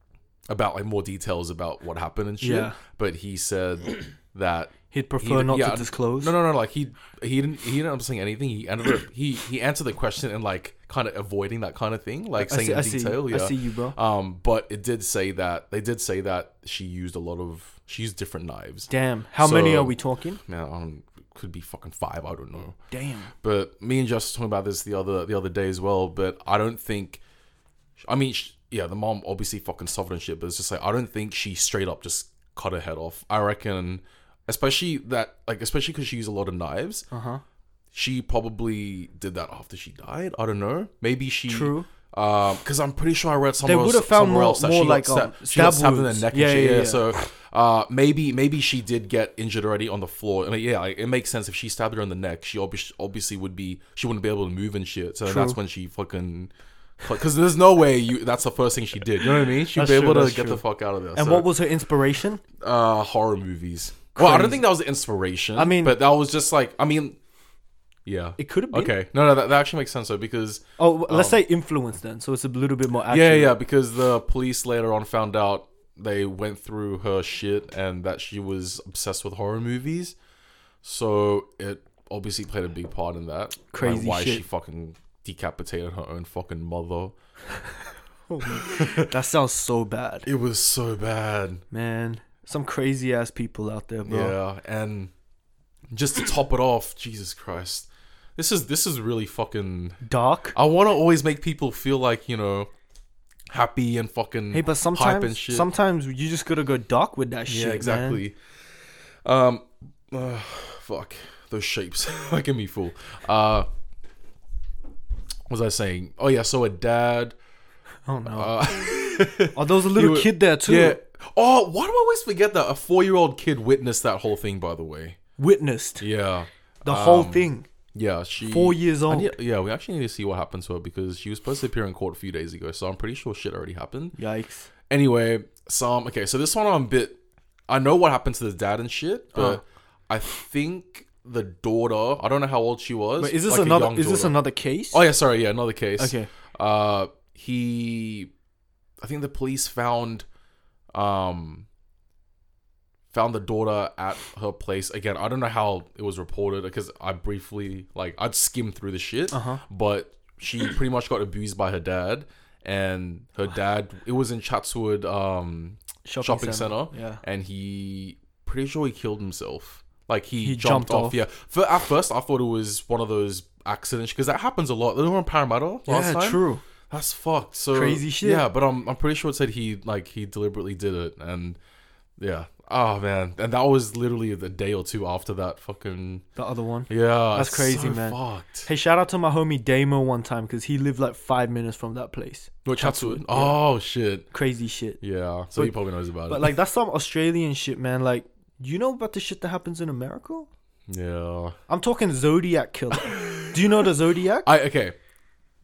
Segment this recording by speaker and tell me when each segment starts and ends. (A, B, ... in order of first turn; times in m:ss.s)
0:00.5-0:18.9 A
0:02.4-0:02.8 B
0:04.9-0:06.3 B
0:12.4-0:13.9 B
0:18.9-0:20.4 B
0:19.4-0:19.9 A
0:20.4-0:22.8 A
0:22.9-0:23.3 B
0:23.4-0:27.2 A
0:28.0-0:37.1 A
0:37.1-0:37.4 B
0:37.9-1:01.5 A
0:41.5-0:41.9 B
0:43.6-0:47.0 B
0:55.2-0:55.6 B
0:59.7-1:00.6 B
1:01.1-1:02.4 B
1:02.6-1:07.2 A
1:04.2-1:04.6 B
1:05.6-1:06.0 B
1:08.0-1:11.4 A
1:08.4-1:08.9 B
1:10.8-1:13.5 B
1:13.1-1:20.1 A
1:20.8-1:27.1 A
1:23.7-1:24.4 B
1:28.3-1:30.3 B
1:28.5-1:29.1 A
1:30.2-1:31.6 A
1:31.7-1:34.4 B
1:34.0-1:35.1 A
1:35.9-1:40.0 A
1:40.0-1:40.5 B
1:40.5-1:42.7 A
1:43.5-1:45.7 A
1:44.5-1:48.2 B
1:47.5-1:48.4 A
1:49.2-1:53.7 A
1:55.5-1:57.3 A
1:58.0-1:58.5 B
1:58.2-2:05.2 A
1:59.5-2:01.0 B
2:05.4-2:06.0 B
2:06.0-2:14.1 A
2:06.8-2:07.7 B
2:08.4-2:09.3 B
2:14.2-2:14.7 B
2:14.9-2:17.2 A
2:17.7-2:24.4 A
2:19.3-2:19.6 B
2:23.2-2:25.0 B
2:24.9-2:28.3 A
2:26.0-2:26.3 B
2:29.0-2:30.2 A
2:30.9-2:31.6 A
2:33.1-3:01.6 A
2:39.3-2:39.6 B
2:46.0-2:47.2 B
2:50.4-2:51.2 B
2:55.9-2:56.6 B
2:57.7-2:58.4 B
3:02.2-3:06.2 A
3:06.4-3:13.6 B
3:06.9-3:08.7 A
3:12.6-3:14.3 A
3:14.3-3:15.0 B
3:15.0-3:16.5 A
3:16.3-3:20.5 B
3:20.9-3:21.6 A
3:21.7-3:24.5 B
3:23.0-3:23.6 A
3:24.4-3:25.0 A